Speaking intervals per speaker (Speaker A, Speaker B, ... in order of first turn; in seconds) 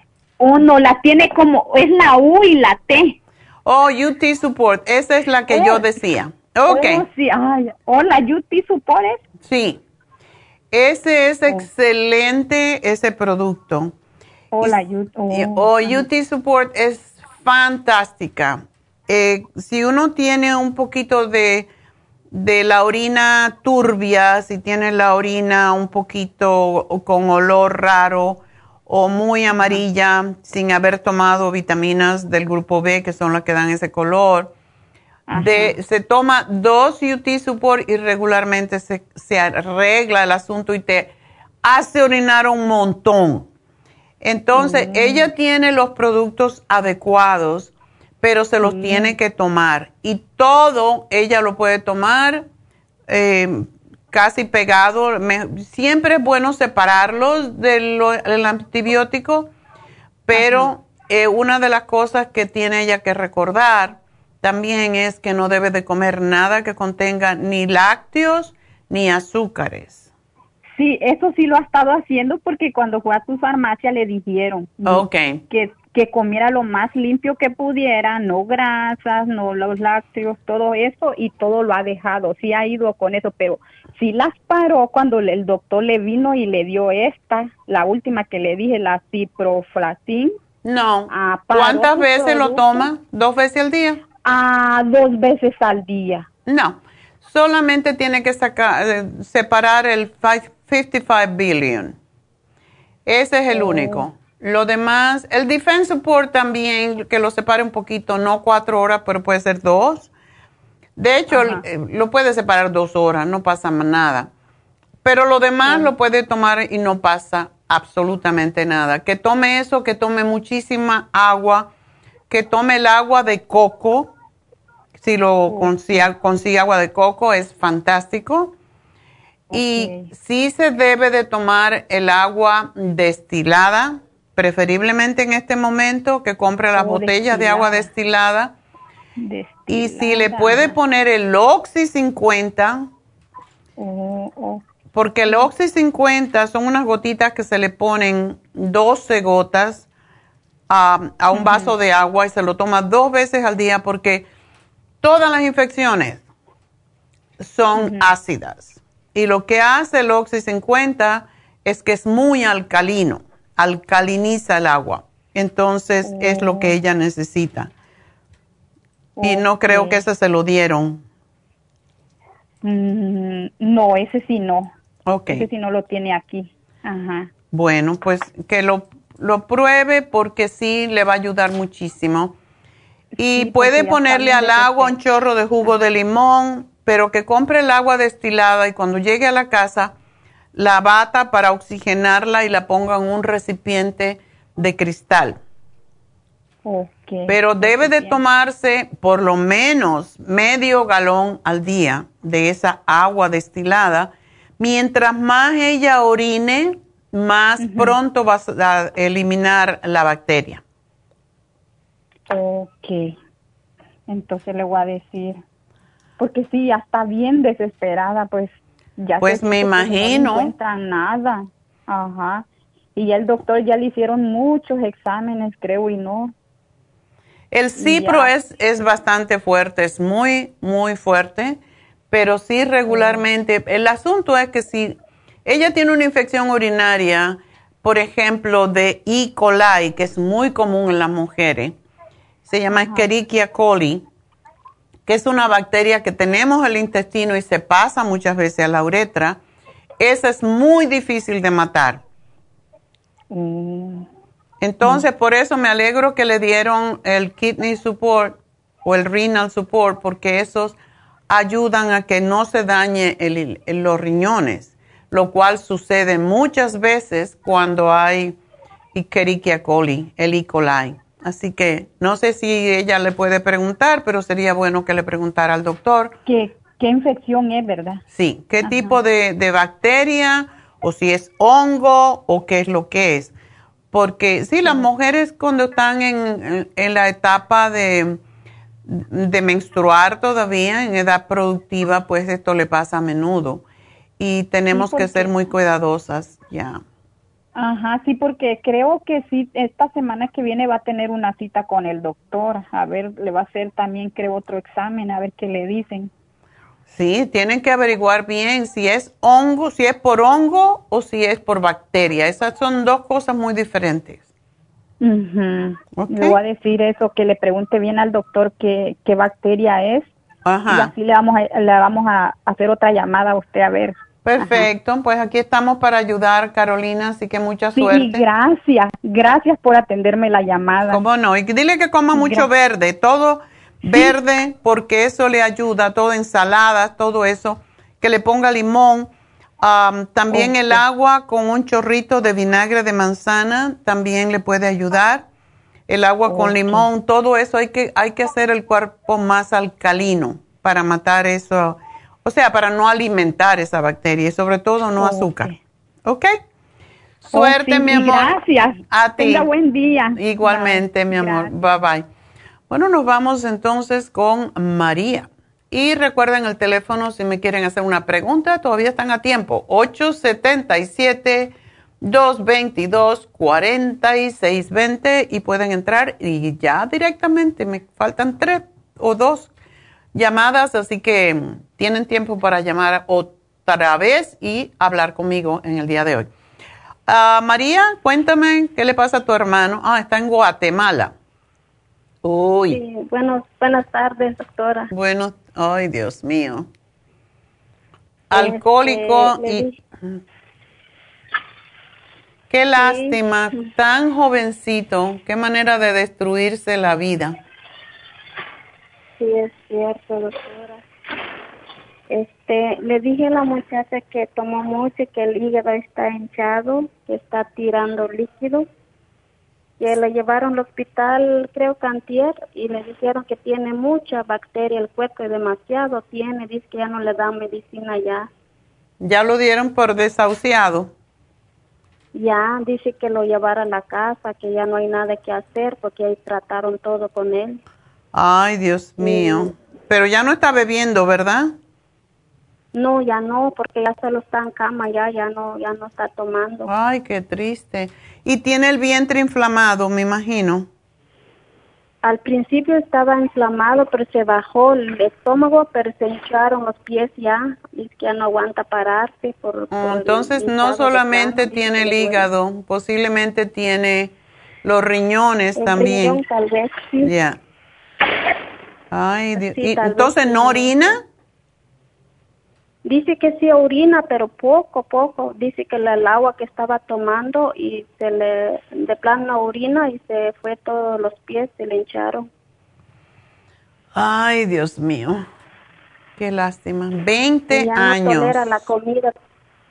Speaker A: 0.4-3.2, 5.5-5.8, 6.7-9.2, 14.5-16.0, 29.5-29.8, 35.3-35.8, 44.5-45.3, 48.6-49.1, 60.3-60.7, 70.8-90.3, 91.1-92.9, 94.2-96.3, 103.5-104.1, 111.3-111.6, 115.6-115.9, 125.5-126.1, 129.5-130.1, 136.8-137.9, 139.2-140.8, 143.8-144.6, 151.3-151.7, 157.7-158.1, 166.0-166.7, 169.2-170.0, 172.6-174.7, 175.3-177.3, 183.2-184.9, 196.6-198.2, 207.6-207.9, 212.3-213.1, 214.1-215.4, 216.2-222.4, 222.9-226.3, 227.8-228.3, 232.9-233.2, 242.7-243.0, 253.3-254.1, 276.2-278.0, 278.6-279.0, 294.7-295.3, 297.6-306.1, 315.0-320.1, 320.7-324.7, 327.8-331.0, 332.1-332.5, 340.3-340.8, 346.2-346.9, 354.9-355.6, 357.3-361.5
Speaker B: 3.6-7.0, 9.4-9.8, 10.7-13.9, 14.6-21.7, 22.3-34.5, 35.3-43.5, 44.2-52.5, 53.1-59.5, 60.2-70.1, 74.8-75.4, 90.6-94.0, 96.5-102.0, 103.0-110.1, 111.0-114.3, 115.0-121.7, 122.3-124.1, 125.0-128.5, 129.5-138.5, 139.7-142.9, 144.9-149.8, 150.7-154.3, 155.0-156.2, 157.4-167.7, 169.2-171.0, 175.1-175.4, 177.5-182.3, 183.2-189.9, 190.5-195.4, 197.3-210.6, 219.2-220.5, 227.5-231.6, 232.1-241.8, 242.5-244.0, 245.1-249.4, 250.0-252.0, 254.6-260.8, 261.3-268.4, 268.9-276.1, 278.1-283.3, 283.9-288.2, 288.9-293.6, 294.2-296.8, 306.9-314.2, 315.9-316.4, 320.4-320.9, 324.2-328.2, 330.9-345.2, 345.9-355.5, 357.2-358.4, 358.9-359.5, 360.1-362.0, 362.7-379.5, 380.1-386.3, 387.1-391.1, 392.2-392.8, 394.9-396.7, 398.3-400.2, 402.5-407.4, 429.0-430.9, 438.1-441.5, 446.6-450.7, 459.7-464.1, 464.6-466.2, 467.0-467.4, 468.9-471.0, 483.9-485.2, 486.2-488.6
Speaker C: 392.7-394.9, 398.3-399.8, 402.8-403.2, 409.2-410.8, 412.1-418.7, 419.8-428.3, 432.1-437.6, 439.0-439.5, 442.7-446.7, 452.0-462.2, 465.6-467.1, 469.4-470.9, 472.8-482.3, 487.5-489.1